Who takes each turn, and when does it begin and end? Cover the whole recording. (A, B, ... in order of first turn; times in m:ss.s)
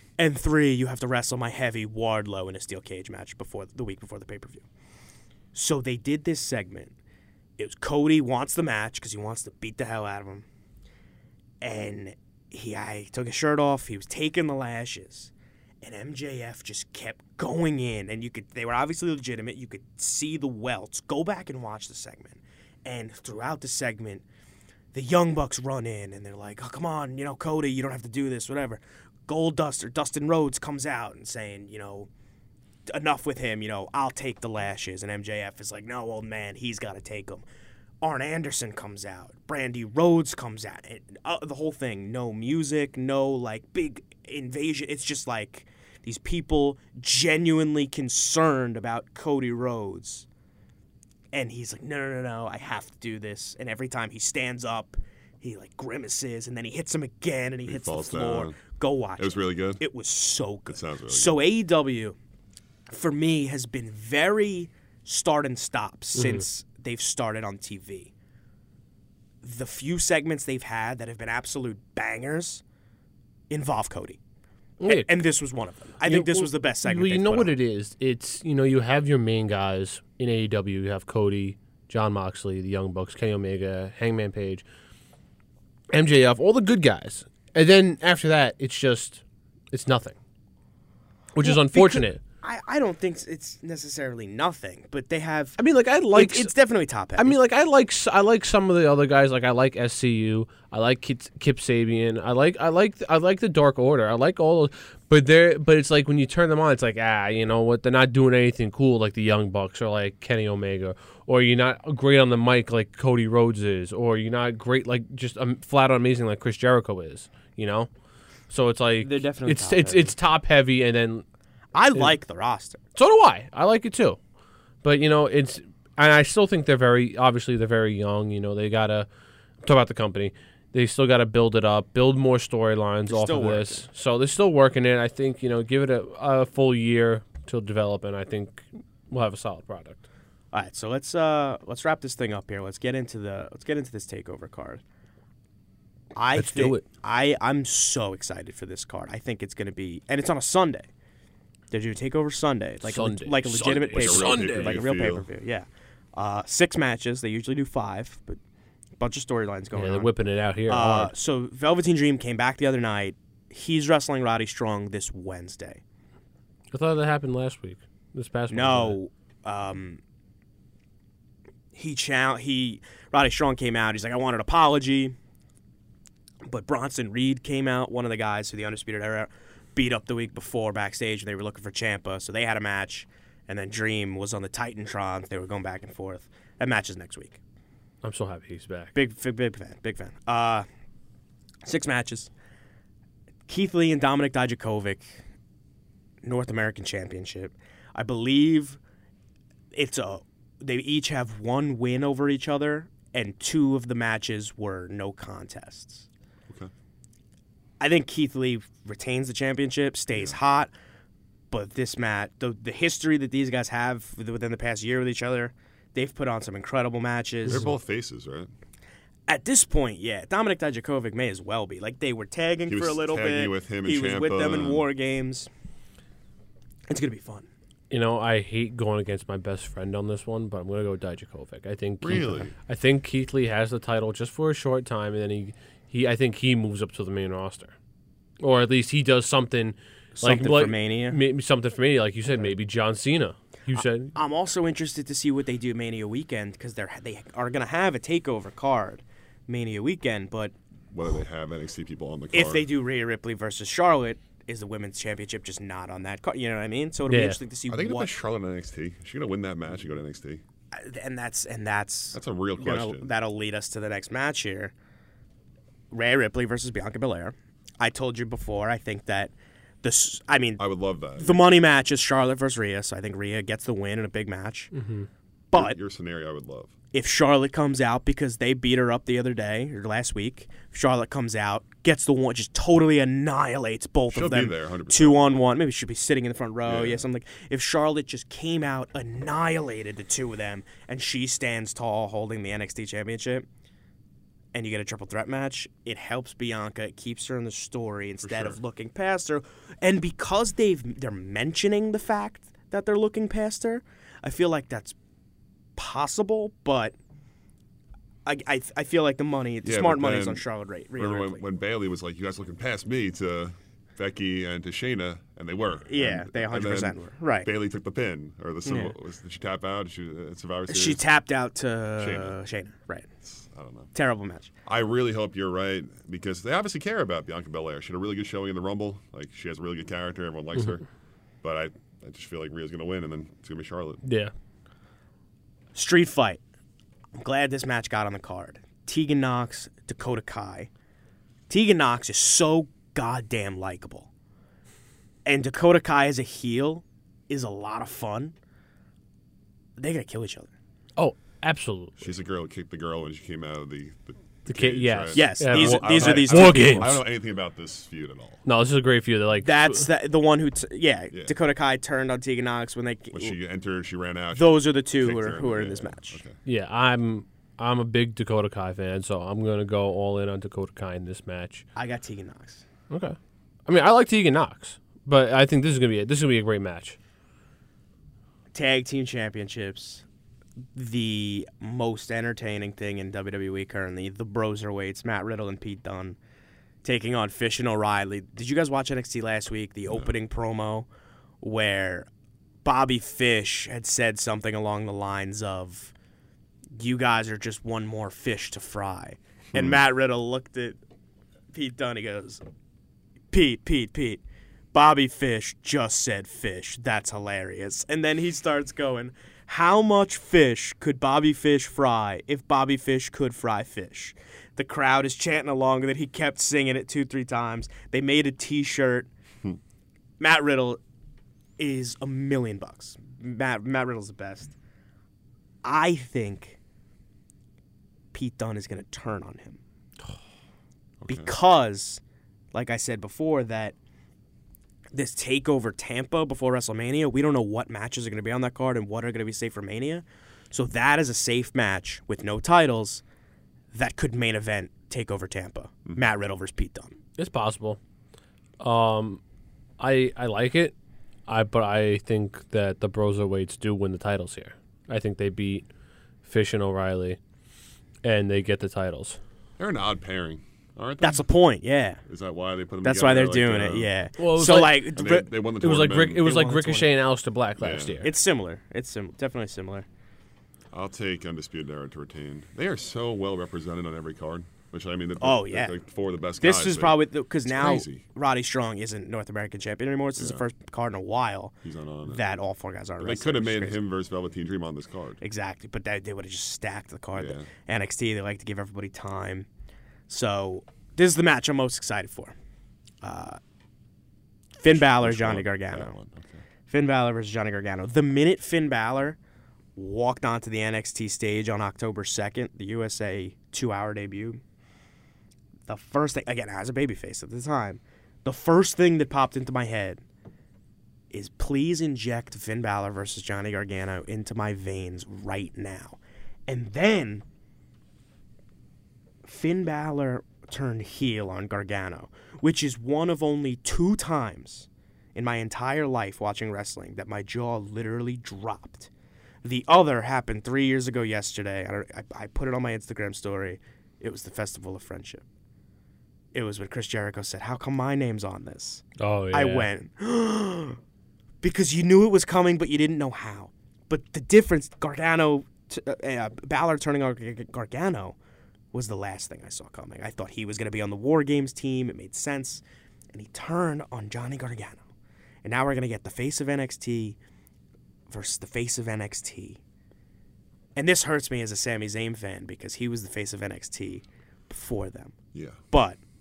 0:00.2-0:04.6 A
0:05.5-0:06.9 A
0:07.6-0:10.4 A
0:11.6-0:24.2 A
0:24.9-0:32.1 A
0:32.9-0:37.4 A
0:38.0-0:50.3 A
0:51.3-1:02.2 A
0:57.7-0:58.6 B
0:59.2-0:59.8 B
1:00.7-1:01.4 B
1:02.9-1:08.1 A
1:06.2-1:06.4 C
1:09.4-1:12.6 A
1:13.5-1:14.2 A
1:14.8-1:15.2 C
1:14.8-1:17.5 A
1:16.0-1:24.6 C
1:25.9-1:30.2 C
1:31.4-1:32.2 C
1:31.4-1:35.6 A
1:35.6-1:36.5 C
1:36.1-1:37.4 A
1:37.2-1:57.9 C
1:58.5-2:01.2 C
1:59.0-2:00.2 A
2:01.7-2:02.8 A
2:03.0-2:04.2 C
2:04.8-2:09.1 C
2:09.6-2:20.0 C
2:13.1-2:13.8 A
2:20.5-2:24.8 A
2:26.2-2:30.9 A
2:26.4-2:26.8 C
2:31.7-2:38.4 A
2:32.8-2:34.8 C
2:33.9-2:35.3 B
2:39.0-2:40.1 A
2:39.7-2:41.1 C
2:40.7-2:45.8 A
2:46.7-2:49.0 C
2:48.5-2:50.0 A
2:51.7-2:55.2 A
2:56.4-3:07.4 A
3:08.0-3:08.9 C
3:08.9-3:10.7 A
3:11.6-3:12.3 A
3:13.5-3:15.2 A
3:16.2-3:18.8 A
3:19.7-3:26.1 A
3:27.8-3:30.7 A
3:31.5-3:37.7 A
3:37.5-3:38.5 B
3:39.3-3:45.5 A
3:42.7-3:44.9 B
3:46.9-3:47.5 A
3:47.9-3:57.7 C
3:52.0-3:52.5 B
3:58.4-4:04.1 C
4:00.2-4:01.2 A
4:03.8-4:10.5 A
4:10.9-4:12.7 B
4:12.3-4:18.1 A
4:17.1-4:17.4 C
4:17.7-4:20.4 B
4:20.7-4:24.7 A
4:22.1-4:23.1 B
4:25.9-4:30.6 A
4:30.6-4:31.4 B
4:31.2-4:34.7 A
4:34.7-4:35.1 C
4:35.5-4:35.8 A
4:35.5-4:36.7 B
4:36.9-4:53.5 A
4:44.1-4:45.3 B
4:46.7-4:47.0 B
4:54.5-5:05.0 A
4:58.2-4:58.6 B
5:05.8-5:07.0 A
5:08.3-5:11.4 A
5:09.6-5:10.4 B
5:11.0-5:21.0 B
5:15.9-5:17.5 A
5:18.6-5:19.0 A
5:20.7-5:23.1 A
5:22.0-5:22.4 B
5:23.2-5:23.9 B
5:23.9-5:24.5 A
5:24.7-5:30.8 B
5:31.4-5:34.0 B
5:34.0-5:34.3 C
5:35.8-5:36.4 A
5:37.2-5:40.7 A
5:41.5-5:44.1 A
5:45.2-5:48.4 A
5:49.8-5:50.5 A
5:51.0-5:52.1 C
5:52.0-5:58.4 B
5:54.5-5:57.0 C
5:55.1-5:57.0 A
5:58.4-5:59.9 C
5:59.4-6:03.4 A
6:03.1-6:06.4 B
6:04.4-6:06.2 A
6:06.5-6:11.6 C
6:11.8-6:12.6 A
6:12.9-6:17.0 C
6:18.5-6:20.0 A
6:20.8-6:26.2 A
6:26.8-6:30.9 A
6:31.4-6:32.1 A
6:32.6-6:35.9 A
6:36.8-6:40.8 A
6:41.5-6:42.4 A
6:43.3-6:44.2 A
6:44.7-6:59.1 A
7:00.2-7:00.8 A
7:01.6-7:04.5 A
7:05.6-7:06.6 A
7:08.1-7:09.6 A
7:11.0-7:11.3 B
7:11.1-7:12.0 A
7:12.5-7:13.8 A
7:14.9-7:23.0 A
7:23.7-7:26.9 A
7:27.2-7:27.8 C
7:28.6-7:29.2 C
7:29.8-7:30.7 C
7:31.3-7:35.7 C
7:36.2-7:37.2 C
7:38.0-7:39.2 C
7:39.6-7:41.2 B
7:41.0-7:42.0 A
7:42.1-7:43.9 B
7:42.8-7:45.3 A
7:44.2-7:44.9 C
7:44.9-7:46.3 B
7:45.6-7:48.1 C
7:46.2-7:46.9 A
7:47.6-7:48.0 B
7:48.0-7:49.9 A
7:50.7-7:58.0 B
7:55.2-7:55.7 A
7:56.4-8:03.8 A
8:00.2-8:00.4 B
8:01.6-8:02.2 B
8:03.0-8:05.2 B
8:05.2-8:09.5 A
8:07.2-8:07.5 B
8:10.1-8:12.4 A
8:13.0-8:13.4 A
8:14.6-8:16.0 A
8:14.6-8:16.4 B
8:16.7-8:19.2 A
8:19.8-8:24.4 A
8:25.7-8:30.0 A
8:31.1-8:37.2 A
8:39.2-8:48.9 A
8:49.4-8:55.2 A
8:56.3-9:00.8 A
8:59.0-8:59.7 C
9:01.4-9:08.2 A
9:08.7-9:14.8 A
9:15.4-9:17.2 A
9:18.1-9:19.6 A
9:20.8-9:25.2 A
9:25.3-9:25.6 B
9:25.7-9:26.0 A